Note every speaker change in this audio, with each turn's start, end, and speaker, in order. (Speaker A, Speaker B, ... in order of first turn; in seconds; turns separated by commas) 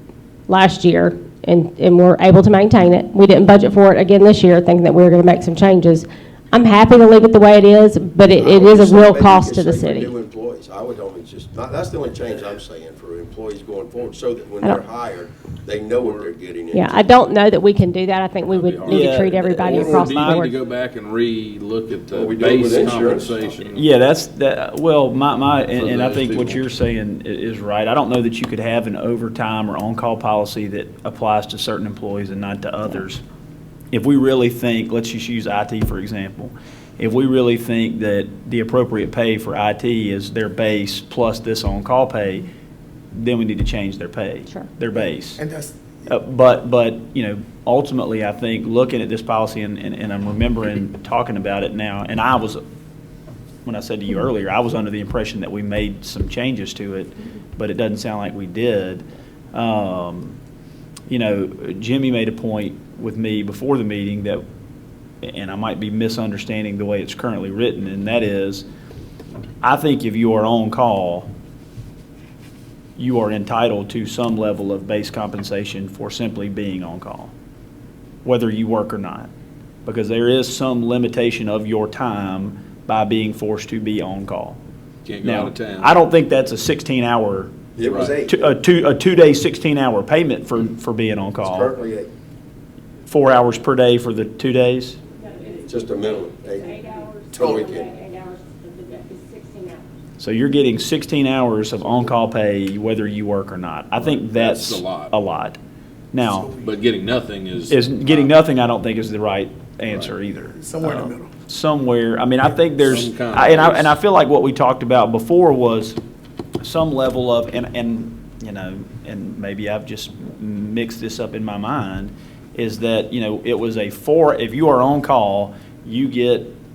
Speaker A: 0.5-10.1, Speaker B: 8.3-17.0, Speaker C: 16.0-16.3, Speaker A: 16.7-20.6, Speaker C: 18.5-23.9, Speaker D: 18.9-20.4, Speaker B: 22.1-23.6, Speaker D: 23.7-33.2, Speaker C: 25.7-26.6, Speaker D: 33.9-42.5, Speaker D: 43.1-45.4, Speaker E: 45.4-46.1, Speaker D: 46.1-52.6, Speaker D: 53.6-60.4, Speaker D: 61.1-64.4, Speaker D: 65.2-68.6, Speaker D: 69.6-71.3, Speaker D: 73.0-77.3, Speaker D: 78.2-79.3, Speaker D: 79.8-84.6, Speaker C: 85.0-86.0, Speaker D: 85.2-87.5, Speaker B: 87.8-88.6, Speaker C: 87.8-88.1, Speaker D: 88.2-91.7, Speaker B: 91.4-92.1, Speaker D: 93.1-95.0, Speaker A: 95.2-96.0, Speaker B: 95.6-96.8, Speaker A: 96.5-99.9, Speaker B: 97.3-97.9, Speaker E: 97.4-97.7, Speaker D: 100.2-105.6, Speaker C: 104.0-105.1, Speaker D: 106.1-106.5, Speaker E: 106.2-106.8, Speaker C: 106.6-108.3, Speaker D: 107.7-116.0, Speaker C: 109.8-110.1, Speaker E: 110.5-111.3, Speaker C: 112.8-114.0, Speaker D: 116.6-126.5